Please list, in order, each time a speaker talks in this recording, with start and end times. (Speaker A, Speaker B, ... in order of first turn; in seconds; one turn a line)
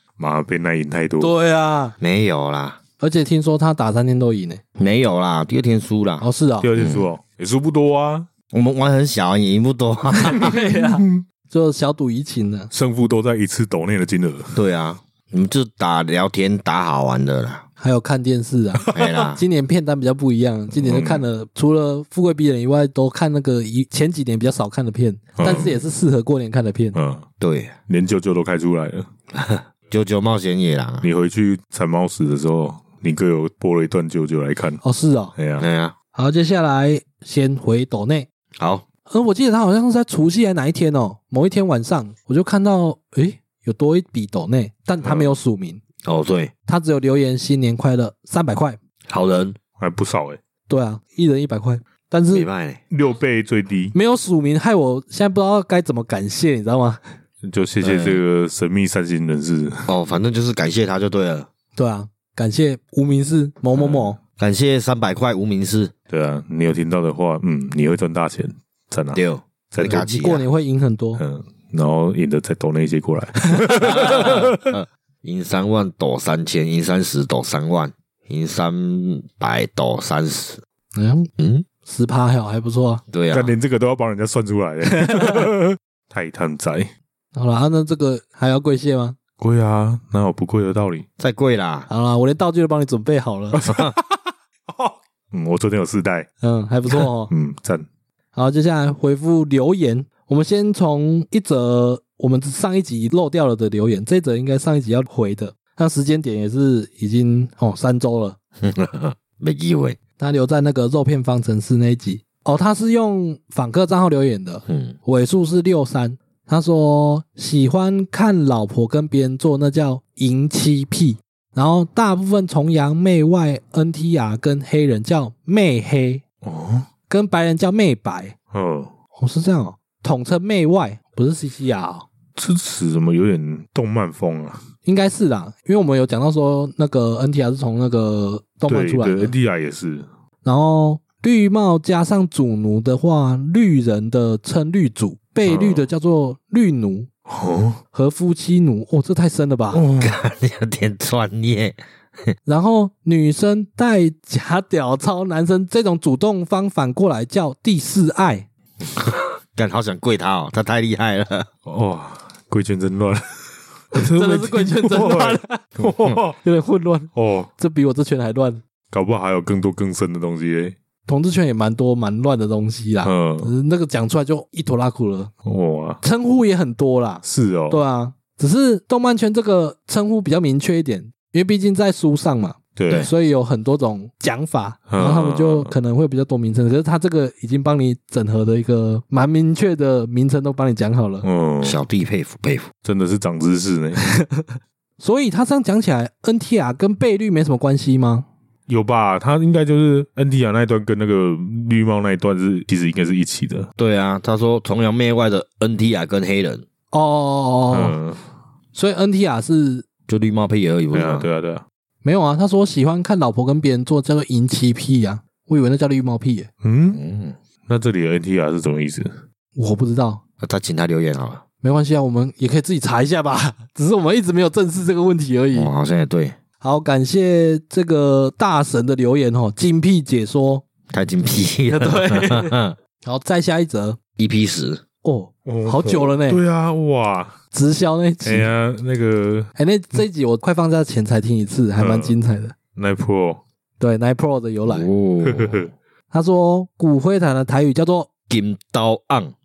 Speaker A: 0.2-1.3
Speaker B: 1.2-1.9
Speaker C: 2.0-2.8
Speaker B: 3.0-4.6
Speaker C: 4.8-7.1
Speaker B: 6.2-6.7
Speaker A: 6.6-8.3
Speaker C: 8.5-10.6
Speaker B: 10.1-12.7
Speaker A: 10.4-11.2
Speaker A: 12.7-14.6
Speaker C: 14.6-17.6
Speaker B: 17.8-26.9
Speaker A: 18.8-19.2
Speaker C: 18.9-19.4
Speaker A: 20.7-21.2
Speaker A: 25.4-25.8
Speaker A: 26.9-27.3
Speaker C: 27.4-27.8
Speaker A: 27.9-29.1
Speaker C: 29.3-31.1
Speaker A: 31.0-34.8
Speaker B: 34.8-35.3
Speaker A: 35.4-35.7
Speaker C: 35.6-36.0
Speaker B: 36.1-38.3
Speaker C: 38.6-38.9
Speaker B: 39.1-45.8
Speaker A: 45.0-45.4
Speaker C: 46.0-46.5
Speaker B: 46.7-48.8
Speaker C: 49.1-49.6
Speaker A: 49.8-50.4
Speaker B: 50.7-52.5
Speaker C: 52.3-52.8
Speaker A: 52.9-54.0
Speaker B: 53.9-57.0
Speaker A: 57.4-59.9
Speaker C: 57.8-58.2
Speaker C: 59.9-61.5
Speaker B: 61.8-64.2
Speaker A: 63.8-64.1
Speaker C: 64.4-65.9
Speaker A: 66.1-70.0
Speaker C: 69.1-70.4
Speaker B: 69.8-71.2
Speaker A: 71.2-74.7
Speaker B: 73.5-74.0
Speaker C: 73.8-80.6
Speaker B: 81.0-81.3
Speaker C: 81.4-81.7
Speaker B: 81.9-83.0
Speaker C: 83.1-83.5
Speaker A: 83.3-86.9
Speaker B: 85.0-85.4
Speaker B: 87.3-89.2
Speaker A: 89.4-91.1
Speaker C: 91.2-91.9
Speaker B: 91.9-93.7
Speaker A: 93.6-94.1
Speaker A: 94.7-96.3
Speaker B: 96.4-97.3
Speaker A: 96.9-97.9
Speaker B: 98.3-108.4
Speaker C: 108.6-110.0
Speaker B: 110.2-126.2
Speaker C: 114.7-115.0
Speaker A: 126.4-126.9
Speaker B: 127.1-128.3
Speaker A: 128.5-128.9
Speaker B: 129.2-132.1
Speaker A: 132.4-134.6
Speaker B: 134.8-139.3
Speaker A: 138.7-140.1
Speaker B: 140.4-147.1
Speaker A: 145.4-145.9
Speaker A: 147.3-147.8
Speaker B: 147.9-149.8
Speaker A: 149.7-150.2
Speaker C: 150.0-151.8
Speaker B: 152.4-158.5
Speaker C: 158.8-161.5
Speaker A: 161.6-166.4
Speaker B: 163.9-165.7
Speaker B: 166.4-168.6
Speaker A: 167.1-167.5
Speaker A: 168.9-170.7
Speaker B: 171.1-175.3
Speaker A: 173.0-173.5
Speaker A: 175.4-176.0
Speaker B: 176.0-191.3
Speaker A: 177.2-177.8
Speaker A: 182.8-183.1
Speaker A: 184.9-185.7
Speaker A: 191.2-191.8
Speaker C: 191.6-192.7
Speaker A: 192.8-194.1
Speaker B: 194.0-198.3
Speaker A: 198.7-203.7
Speaker C: 203.8-206.6
Speaker B: 206.9-207.9
Speaker A: 207.7-208.2
Speaker B: 208.7-209.9
Speaker C: 210.1-211.3
Speaker A: 210.9-211.6
Speaker B: 212.0-216.5
Speaker A: 216.6-217.0
Speaker C: 216.9-217.4
Speaker A: 217.7-219.2
Speaker B: 219.6-220.2
Speaker C: 220.4-221.4
Speaker B: 221.6-225.7
Speaker C: 225.5-226.4
Speaker B: 226.6-230.6
Speaker C: 230.9-232.8
Speaker B: 231.7-234.0
Speaker C: 234.2-234.8
Speaker B: 235.0-236.4
Speaker A: 235.4-237.4
Speaker B: 237.5-238.5
Speaker A: 238.2-239.5
Speaker B: 239.6-242.5
Speaker A: 241.8-242.2
Speaker A: 242.7-243.4
Speaker B: 243.8-244.9
Speaker C: 244.7-245.7
Speaker A: 245.2-245.7
Speaker B: 246.1-248.1
Speaker C: 248.3-249.3